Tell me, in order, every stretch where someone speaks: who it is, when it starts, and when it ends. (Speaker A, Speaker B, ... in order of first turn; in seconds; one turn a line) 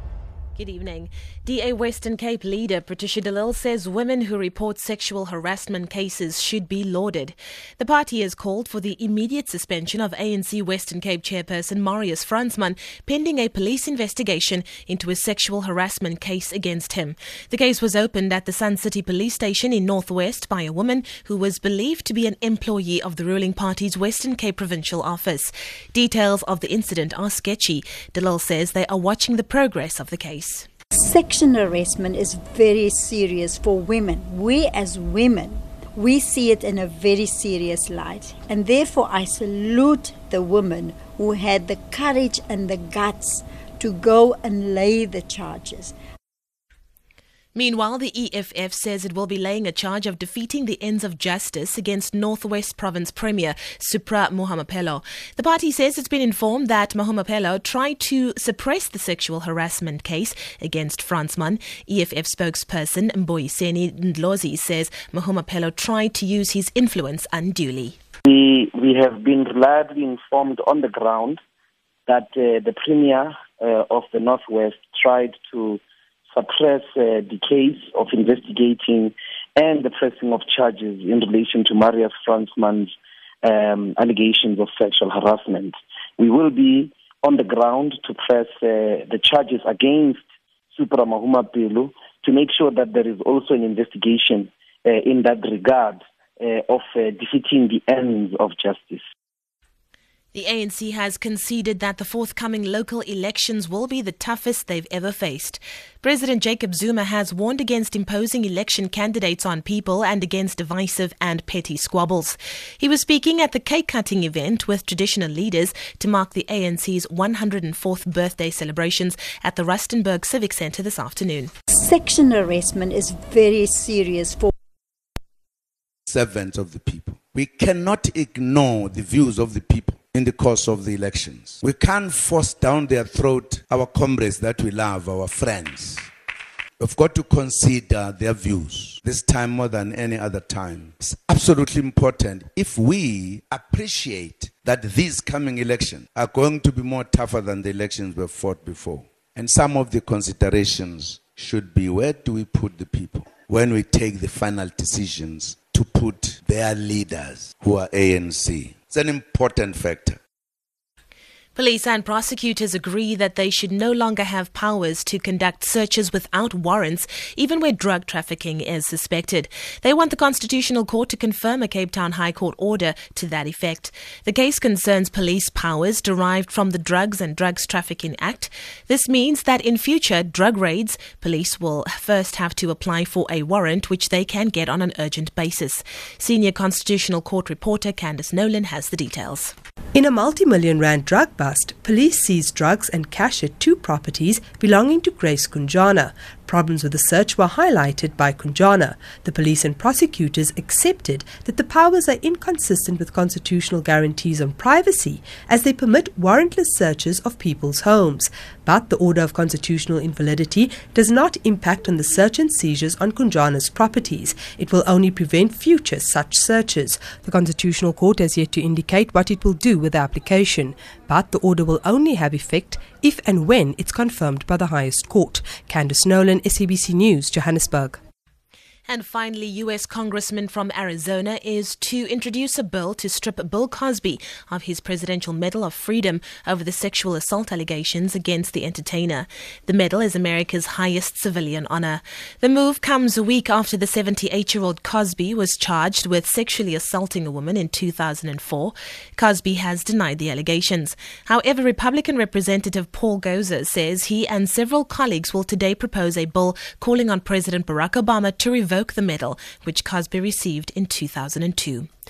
Speaker A: 0.6-30.7
Speaker B: 30.9-45.9
Speaker A: 47.5-68.0
Speaker C: 68.2-71.4
Speaker C: 72.1-99.0
Speaker A: 100.3-121.5
Speaker B: 121.7-124.5
Speaker D: 126.1-136.1
Speaker D: 136.8-160.2
Speaker A: 161.6-189.5
Speaker E: 189.9-228.0
Speaker A: 228.9-261.9